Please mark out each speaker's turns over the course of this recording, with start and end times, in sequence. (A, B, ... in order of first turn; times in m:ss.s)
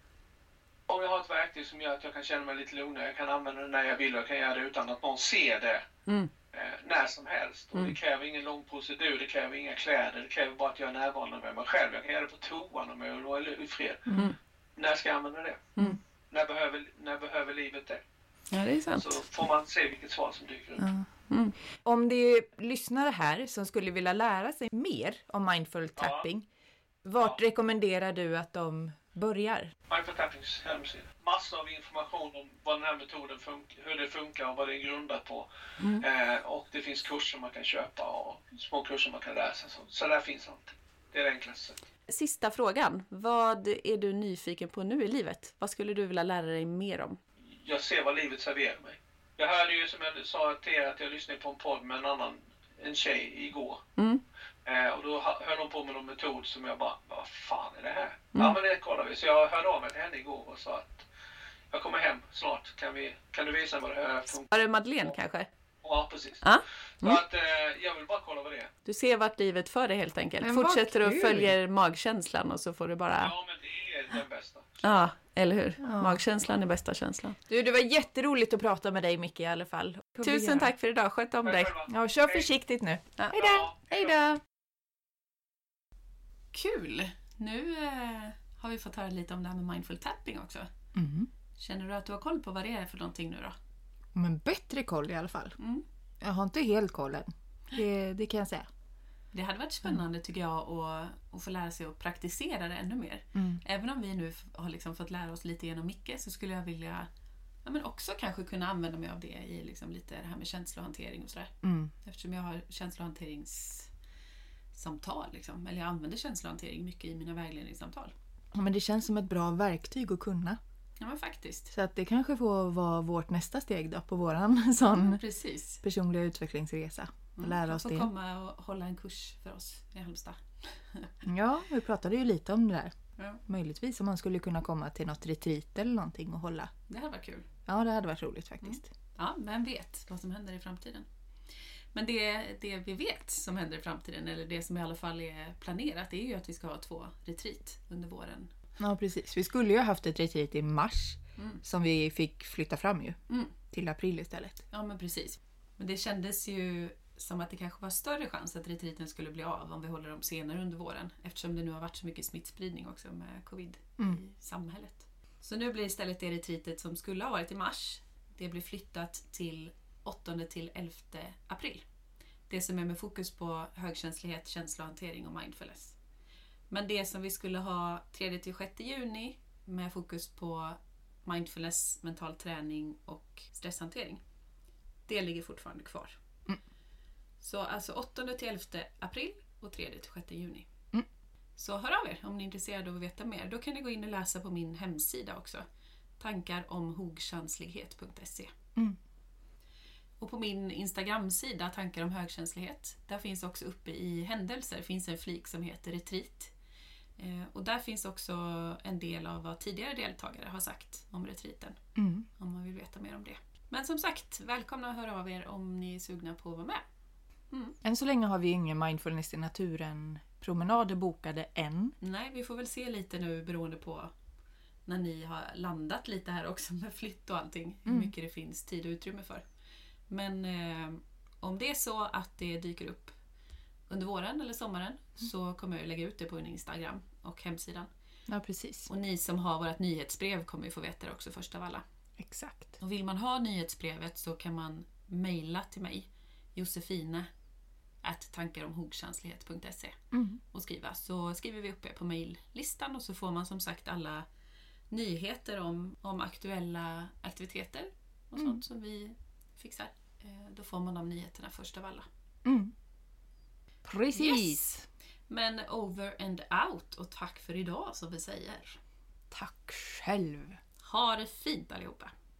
0:00.9-0:05.8 A
0:06.5-0:14.1 A
0:14.8-0:15.8 A
0:16.3-0:18.0 A
0:18.5-0:19.2 B
0:19.0-0:20.9 A
0:20.8-0:21.1 C
0:21.3-0:21.5 B
0:21.8-0:26.5 C
0:26.0-0:26.3 A
0:27.0-0:29.7 C
0:29.9-0:41.8 A
0:35.8-0:36.0 B
0:42.1-0:47.2 B
0:47.5-0:53.8 A
0:54.0-0:54.2 B
0:54.6-1:01.0 A
1:01.7-1:04.5 A
1:04.5-1:05.5 B
1:05.8-1:06.4 A
1:06.4-1:07.2 B
1:07.0-1:08.7 A
1:08.8-1:13.3 B
1:10.4-1:11.5 C
1:13.2-1:14.8 A
1:14.8-1:17.4 B
1:15.8-1:16.2 C
1:17.5-1:20.7 C
1:20.2-1:21.7 B
1:21.4-1:22.5 A
1:21.9-1:24.4 C
1:23.2-1:23.5 B
1:23.3-1:24.2 A
1:26.5-1:30.7 B
1:30.9-1:31.3 C
1:31.6-1:33.5 B
1:34.1-1:35.6 C
1:35.6-1:35.8 B
1:36.2-1:38.7 C
1:39.3-1:47.1 B
1:43.3-1:43.6 C
1:47.6-1:53.9 B
1:51.6-1:51.9 C
1:54.7-1:58.1 B
1:58.5-2:00.6 C
2:01.0-2:01.7 B
2:01.7-2:05.2 C
2:04.8-2:05.8 B
2:05.8-2:08.1 C
2:07.4-2:11.1 B
2:11.2-2:12.9 C
2:13.4-2:16.7 C
2:16.9-2:17.5 B
2:17.6-2:18.9 C
2:18.6-2:21.0 B
2:21.9-2:28.5 B
2:28.8-2:33.2 C
2:31.4-2:31.6 B
2:33.7-2:34.6 C
2:34.7-2:51.8 B
2:52.5-2:56.0 B
2:56.7-3:04.2 B
3:05.1-3:06.2 B
3:07.4-3:10.7 B
3:11.6-3:15.6 B
3:16.2-3:18.5 B
3:20.2-3:26.5 B
3:27.2-3:31.8 B
3:32.0-3:32.3 C
3:32.4-3:36.8 B
3:37.5-3:37.8 B
3:37.8-3:41.9 C
3:42.0-3:44.1 B
3:44.8-3:49.4 B
3:47.8-3:48.1 C
3:50.1-3:53.2 B
3:53.9-3:57.9 B
3:58.3-3:58.9 C
3:58.9-4:01.8 B
4:02.2-4:02.8 C
4:02.8-4:07.3 B
4:08.0-4:10.0 B
4:10.1-4:10.4 C
4:10.5-4:14.2 B
4:14.9-4:22.1 B
4:18.4-4:18.6 C
4:22.4-4:22.7 C
4:23.8-4:24.8 C
4:24.1-4:24.6 B
4:25.3-4:28.8 B
4:29.3-4:30.6 C
4:30.8-4:32.1 B